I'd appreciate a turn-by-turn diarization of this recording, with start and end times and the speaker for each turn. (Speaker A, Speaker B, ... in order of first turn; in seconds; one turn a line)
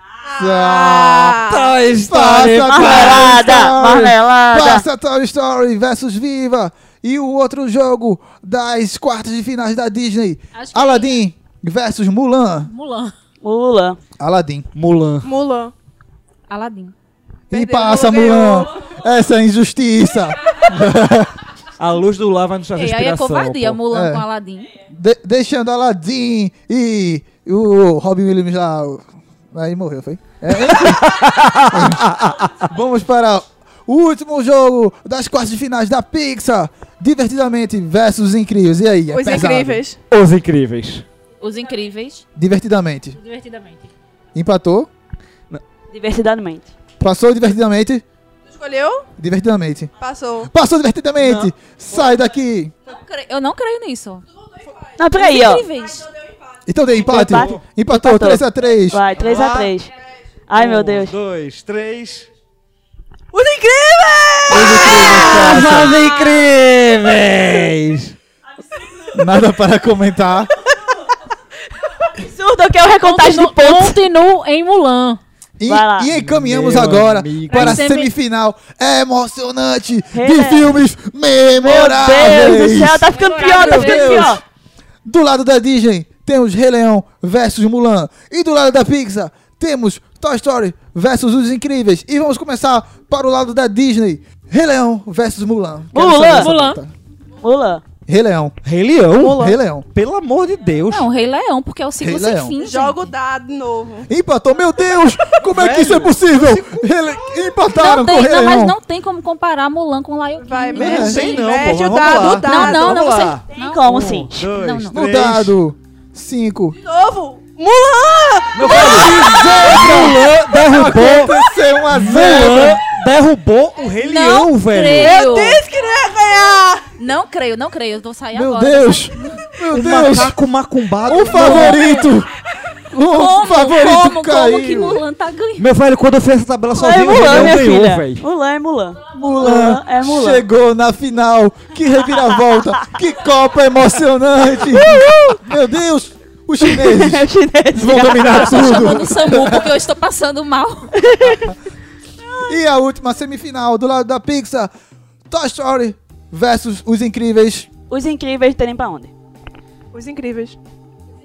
Speaker A: 0.2-1.8
Speaker B: 0.4-1.4
Speaker C: 1.4-3.3
Speaker B: 2.0-12.7
Speaker D: 2.6-4.8
Speaker E: 10.6-11.2
Speaker E: 12.7-13.1
Speaker D: 13.4-14.0
Speaker B: 14.2-14.7
Speaker C: 14.8-15.3
Speaker A: 15.2-15.7
Speaker F: 16.5-16.9
Speaker B: 17.5-21.4
Speaker A: 17.5-18.9
Speaker C: 21.8-23.8
Speaker F: 22.8-24.7
Speaker B: 23.9-24.2
Speaker B: 24.9-39.8
Speaker C: 30.6-32.5
Speaker A: 39.1-40.0
Speaker C: 40.1-41.0
Speaker F: 41.4-42.3
Speaker B: 42.4-43.2
Speaker E: 43.1-43.9
Speaker B: 44.4-44.9
Speaker D: 45.9-46.7
Speaker B: 47.0-48.0
Speaker A: 48.5-49.1
Speaker B: 49.2-49.9
Speaker A: 50.0-50.5
Speaker B: 50.5-52.7
Speaker C: 51.2-51.5
Speaker F: 52.9-54.2
Speaker A: 54.6-54.9
Speaker D: 55.0-55.7
Speaker F: 55.1-56.1
Speaker B: 56.7-59.0
Speaker D: 57.0-59.9
Speaker C: 57.3-57.6
Speaker C: 59.2-59.7
Speaker D: 60.5-61.1
Speaker C: 60.5-62.3
Speaker A: 63.3-65.6
Speaker B: 64.5-66.0
Speaker C: 65.2-68.2
Speaker E: 66.0-66.3
Speaker B: 69.1-70.5
Speaker D: 72.2-74.0
Speaker E: 73.0-75.2
Speaker B: 75.6-84.4
Speaker D: 75.7-76.1
Speaker C: 76.1-77.8
Speaker E: 77.5-78.1
Speaker D: 80.1-80.8
Speaker D: 81.6-84.4
Speaker E: 83.1-84.4
Speaker B: 85.0-96.9
Speaker D: 95.9-96.5
Speaker E: 96.4-96.8
Speaker D: 97.4-97.8
Speaker B: 98.1-98.6
Speaker C: 98.6-101.1
Speaker A: 99.2-99.6
Speaker B: 99.2-99.9
Speaker F: 100.9-103.1
Speaker B: 102.0-102.6
Speaker A: 102.6-104.1
Speaker B: 104.1-108.8
Speaker C: 105.5-106.9
Speaker F: 107.6-115.0
Speaker A: 110.4-113.2
Speaker B: 110.8-111.3
Speaker C: 110.8-115.5
Speaker D: 113.5-114.5
Speaker B: 114.9-116.8
Speaker A: 116.8-121.5
Speaker C: 118.5-121.3
Speaker B: 118.6-122.8
Speaker C: 121.9-125.2
Speaker F: 124.0-125.7
Speaker A: 125.0-126.9
Speaker F: 127.0-129.4
Speaker B: 128.3-130.4
Speaker C: 129.7-131.9
Speaker B: 131.1-132.3
Speaker F: 131.5-132.1
Speaker B: 132.9-135.0
Speaker F: 133.1-135.7
Speaker C: 135.6-138.2
Speaker D: 136.8-140.4
Speaker B: 139.1-149.7
Speaker D: 144.7-145.4
Speaker D: 146.6-148.9
Speaker F: 148.2-150.9
Speaker D: 151.0-151.5
Speaker B: 152.4-154.7
Speaker B: 155.3-157.7
Speaker D: 157.9-159.1
Speaker A: 159.9-160.6